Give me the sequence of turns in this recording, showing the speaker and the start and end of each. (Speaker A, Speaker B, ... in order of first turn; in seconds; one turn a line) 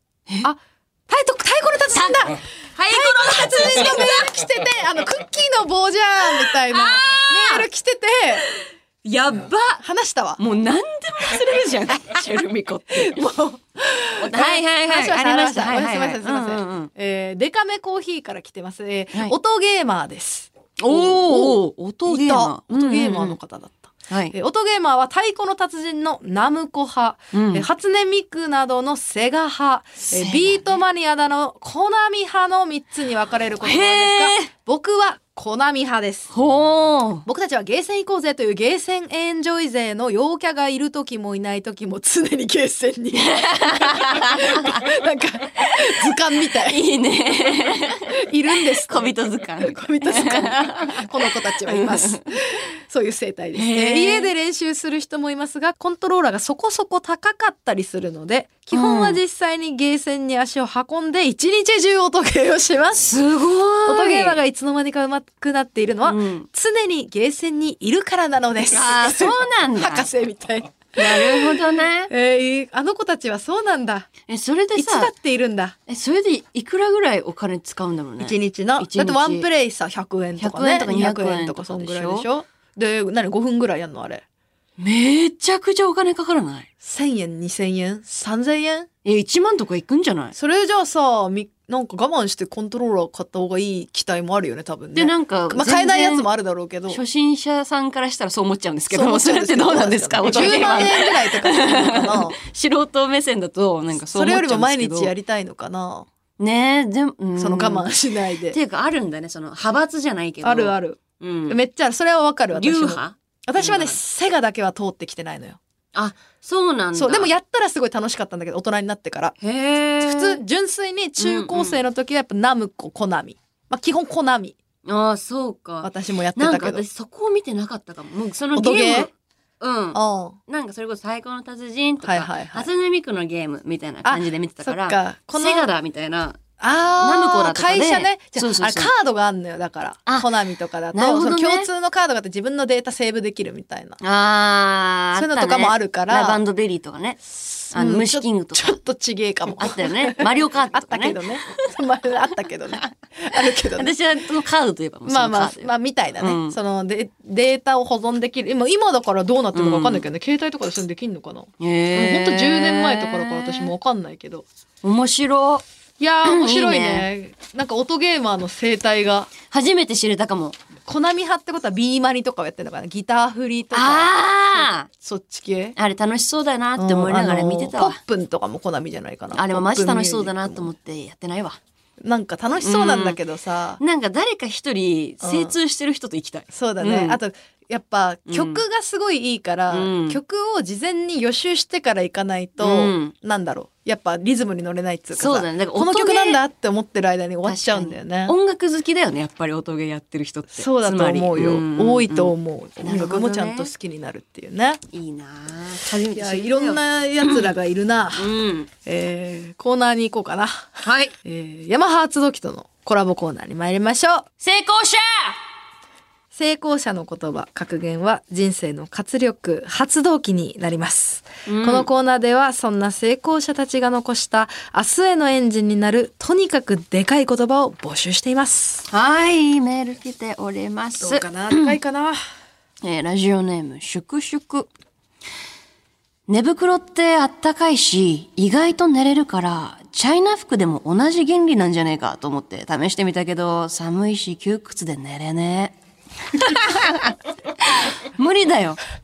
Speaker A: 0.4-8.4
Speaker B: 1.9-4.3
Speaker B: 6.4-7.7
Speaker B: 8.5-9.8
Speaker A: 9.8-10.4
Speaker B: 10.4-13.4
Speaker A: 13.0-36.3
Speaker B: 14.2-16.9
Speaker B: 20.8-23.4
Speaker B: 24.1-24.3
Speaker B: 27.3-27.6
Speaker B: 30.1-30.8
Speaker B: 33.6-34.5
Speaker B: 36.3-37.3
Speaker A: 37.2-46.8
Speaker B: 43.2-44.8
Speaker B: 46.7-48.2
Speaker A: 48.1-63.2
Speaker B: 48.9-52.2
Speaker B: 53.5-54.3
Speaker B: 58.7-59.2
Speaker B: 63.0-64.4
Speaker A: 63.9-74.1
Speaker B: 66.1-66.5
Speaker B: 68.6-70.1
Speaker B: 71.0-72.1
Speaker B: 74.3-75.1
Speaker A: 74.8-75.8
Speaker B: 75.9-79.5
Speaker A: 78.2-84.2
Speaker B: 80.4-82.3
Speaker B: 84.8-86.7
Speaker A: 86.8-88.9
Speaker B: 89.0-90.3
Speaker A: 90.3-97.0
Speaker B: 95.0-96.3
Speaker B: 96.9-105.1
Speaker A: 98.9-102.4
Speaker A: 104.1-106.1
Speaker B: 106.4-107.9
Speaker A: 107.4-108.6
Speaker B: 108.5-111.6
Speaker A: 110.4-115.6
Speaker B: 112.5-114.0
Speaker B: 115.9-117.3
Speaker A: 117.0-119.3
Speaker B: 119.4-120.4
Speaker A: 120.0-124.6
Speaker B: 121.2-121.8
Speaker B: 124.9-136.4
Speaker A: 125.8-126.8
Speaker A: 128.5-129.1
Speaker A: 129.9-130.4
Speaker A: 132.0-132.7
Speaker A: 134.1-135.7
Speaker A: 136.6-144.0
Speaker B: 137.0-138.9
Speaker B: 140.9-141.7
Speaker B: 144.0-147.2
Speaker A: 145.2-146.4
Speaker A: 147.3-153.9
Speaker B: 147.7-148.8
Speaker B: 149.6-151.7
Speaker B: 153.8-156.6
Speaker A: 155.1-164.5
Speaker B: 159.5-160.1
Speaker B: 161.6-163.7
Speaker B: 164.8-165.6
Speaker A: 166.0-169.3
Speaker B: 166.2-167.1
Speaker B: 169.5-170.6
Speaker A: 170.9-175.8
Speaker B: 173.7-174.9
Speaker B: 175.8-178.0
Speaker A: 176.8-180.7
Speaker B: 179.3-181.6
Speaker A: 182.0-183.8
Speaker B: 182.6-183.2
Speaker B: 183.8-187.2
Speaker A: 185.2-185.5
Speaker A: 186.5-198.3
Speaker B: 188.3-188.6
Speaker B: 189.7-190.2
Speaker B: 192.6-193.1
Speaker B: 195.1-196.4
Speaker B: 197.5-203.7
Speaker A: 200.5-204.8
Speaker B: 204.9-207.5
Speaker A: 206.2-208.3
Speaker B: 208.2-208.7
Speaker A: 208.8-214.3
Speaker B: 210.8-211.1
Speaker B: 214.4-215.4
Speaker A: 216.3-228.9
Speaker B: 221.5-221.9
Speaker B: 228.9-231.8
Speaker A: 231.0-232.2
Speaker B: 232.8-234.7
Speaker B: 236.3-245.8
Speaker B: 246.3-248.8